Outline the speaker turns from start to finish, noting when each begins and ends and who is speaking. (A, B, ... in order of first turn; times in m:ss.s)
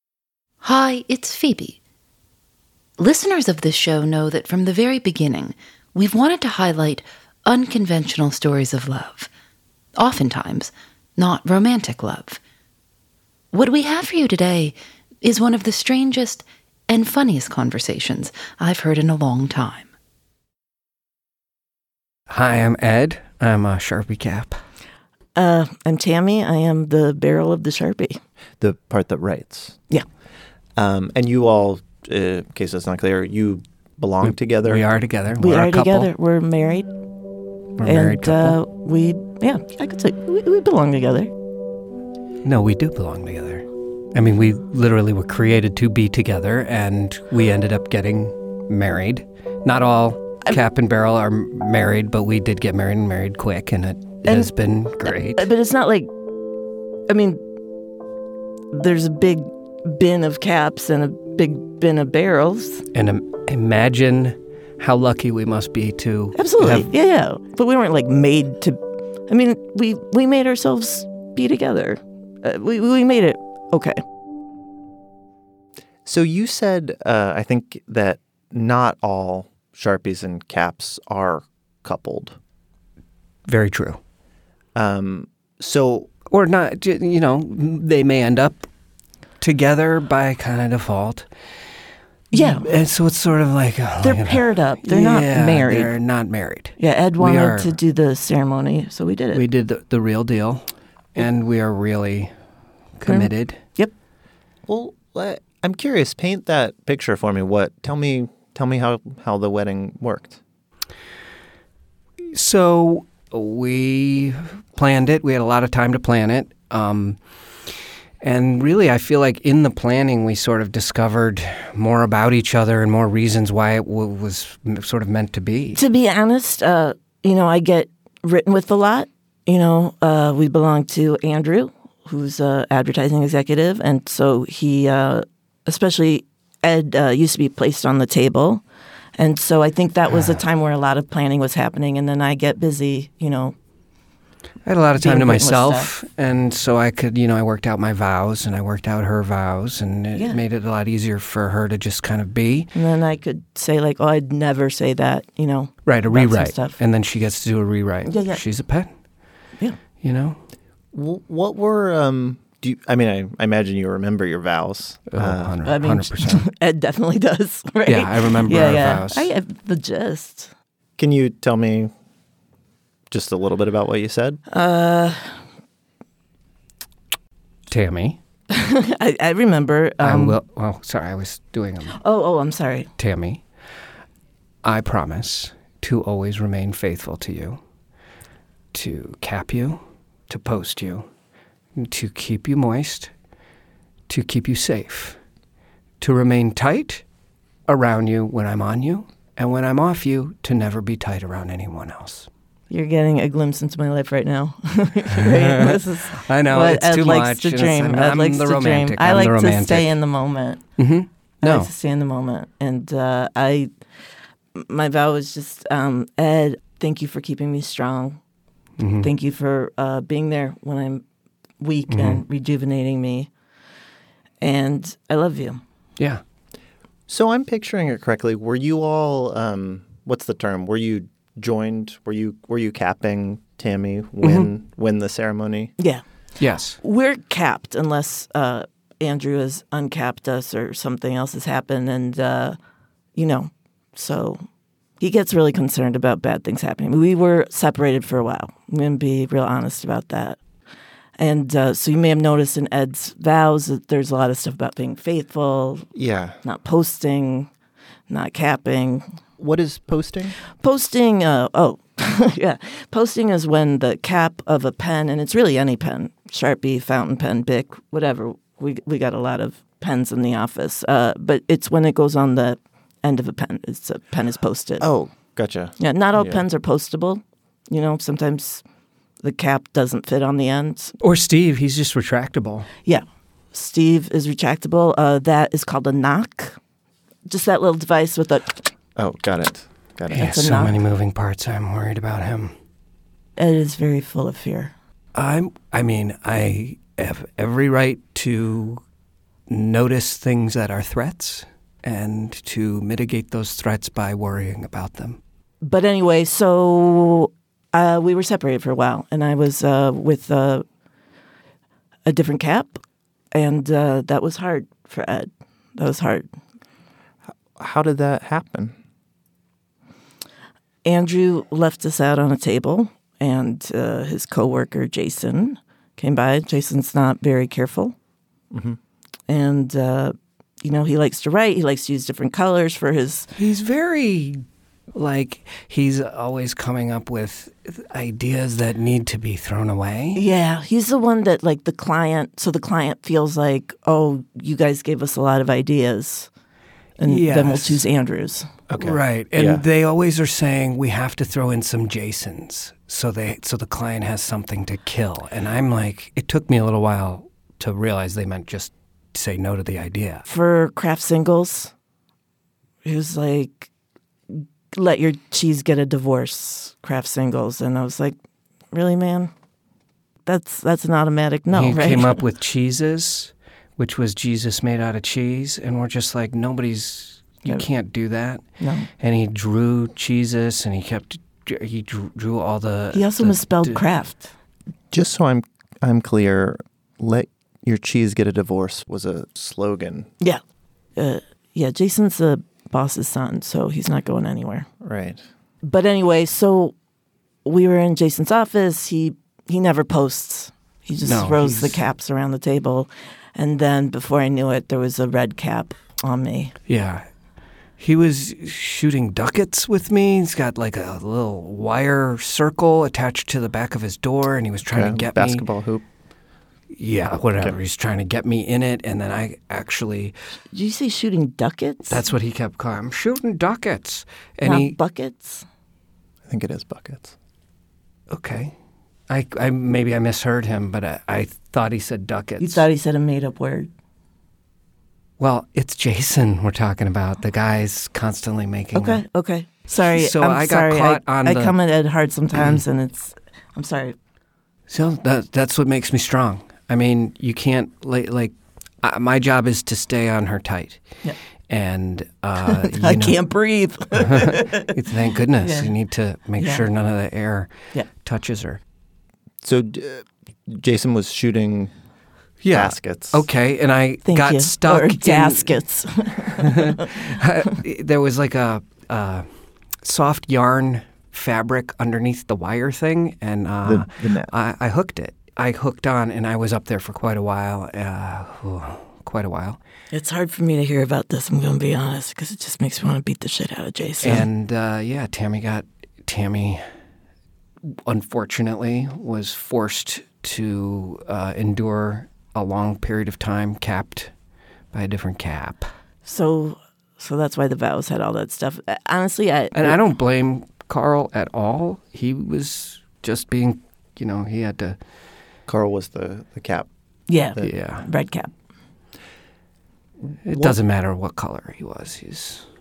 0:00.6-0:01.8 A
0:03.0-0:09.3 A
0:10.0-0:12.4 A
0:13.5-0:19.9 A
0:22.3-0:24.6 B
0:25.4-0:28.2 C
0:28.6-0:29.8 D
0:30.8-0:34.8 D
0:34.2-0:36.1 B
0:35.4-0:36.9 C
0:37.8-0:38.6 B
0:37.8-0:41.3 C
0:42.4-0:55.5 B
0:54.2-0:56.1 C
0:57.1-0:57.4 C
0:58.7-1:02.8 C
1:02.9-1:06.9 B
1:06.3-1:14.0 C
1:16.0-1:22.4 D
1:23.5-1:24.0 B
1:24.7-1:26.1 D
1:26.3-1:28.7 B
1:29.4-1:31.3 B
1:32.3-1:32.7 C
1:32.3-1:37.8 B
1:34.0-1:35.9 C
1:36.8-1:39.4 C
1:39.3-1:42.3 B
1:43.0-1:43.6 B
1:43.0-1:43.9 C
1:44.6-1:50.4 D
1:52.3-1:57.2 B
1:58.2-2:05.8 B
2:05.8-2:18.6 C
2:19.2-2:23.5 C
2:24.6-2:32.7 B
2:25.0-2:25.9 C
2:30.1-2:30.4 C
2:32.7-2:36.8 C
2:35.8-2:38.9 B
2:38.0-2:38.4 C
2:40.0-2:40.4 B
2:40.9-2:45.6 D
2:45.1-2:46.5 B
2:45.6-2:50.5 C
2:47.8-2:49.3 B
2:51.0-2:51.9 D
2:53.1-2:54.4 D
2:54.5-2:55.4 C
2:57.7-2:58.2 B
2:58.5-3:00.4 C
3:00.0-3:02.0 B
3:02.0-3:02.9 C
3:03.0-3:03.4 B
3:04.6-3:07.6 B
3:08.7-3:11.1 B
3:11.7-3:13.1 B
3:14.1-3:15.2 B
3:16.0-3:17.0 B
3:17.7-3:22.3 B
3:22.7-3:30.6 C
3:25.4-3:29.9 B
3:30.8-3:31.7 B
3:31.4-3:33.7 C
3:34.5-3:38.2 C
3:38.8-3:39.1 B
3:39.0-3:41.0 C
3:41.6-3:43.3 C
3:41.9-3:42.2 B
3:44.4-3:45.6 C
3:47.1-3:55.7 D
3:54.2-3:54.5 B
3:56.4-3:56.8 B
3:56.8-4:02.6 C
4:03.2-4:04.4 C
4:05.0-4:10.4 C
4:11.2-4:15.9 C
4:15.9-4:16.4 D
4:16.4-4:17.5 C
4:18.1-4:19.1 C
4:19.4-4:20.4 D
4:20.6-4:34.9 C
4:34.8-4:36.4 D
4:35.8-4:38.6 C
4:39.2-4:40.9 C
4:41.0-4:42.7 B
4:42.8-4:46.6 C
4:47.3-4:48.6 C
4:49.0-4:50.3 D
4:50.1-4:52.5 B
4:50.2-4:50.8 C
4:53.4-4:54.7 C
4:55.1-4:58.8 B
4:59.5-5:05.2 B
5:05.6-5:10.6 C
5:12.0-5:12.8 C
5:13.3-5:16.3 C
5:17.6-5:18.7 D
5:20.8-5:27.9 C
5:28.5-5:28.8 D
5:29.3-5:33.3 C
5:33.4-5:40.2 B
5:40.1-5:46.3 C
5:47.0-5:48.5 C
5:47.0-5:47.8 B
5:48.7-5:49.6 D
5:48.8-6:00.2 B
6:00.3-6:01.7 C
6:02.8-6:03.7 C
6:04.3-6:08.2 C
6:08.7-6:09.3 C
6:10.2-6:12.2 C
6:11.5-6:18.4 B
6:18.6-6:18.9 C
6:19.0-6:23.8 B
6:22.9-6:24.3 C
6:24.9-6:30.1 D
6:31.0-6:34.7 C
6:34.8-6:35.2 D
6:35.6-6:36.7 C
6:37.4-6:46.5 C
6:41.0-6:41.8 B
6:46.7-6:47.0 B
6:47.8-6:55.4 B
6:54.7-6:55.8 D
6:56.7-7:00.2 B
7:00.5-7:02.0 C
7:01.9-7:04.8 B
7:04.4-7:05.4 C
7:06.3-7:07.1 D
7:08.1-7:08.5 B
7:09.1-7:12.6 B
7:12.4-7:13.7 C
7:15.2-7:19.0 B
7:18.7-7:24.0 C
7:19.9-7:21.5 B
7:24.7-7:30.8 B
7:31.5-7:33.2 B
7:32.4-7:34.7 C
7:34.0-7:38.6 B
7:35.4-7:35.7 C
7:36.4-7:36.6 C
7:39.4-7:41.7 D
7:42.4-7:45.6 B
7:42.5-7:43.3 D
7:44.0-7:47.2 C
7:46.4-7:49.3 B
7:49.8-7:59.6 B
7:53.6-7:54.3 D
7:59.9-8:04.2 C
8:04.0-8:06.6 B
8:07.6-8:14.1 B
8:14.7-8:15.7 B
8:16.0-8:19.8 C
8:19.5-8:24.8 B
8:25.5-8:26.7 D
8:27.1-8:28.3 C
8:27.4-8:27.8 B
8:30.2-8:32.5 B
8:30.3-8:30.6 D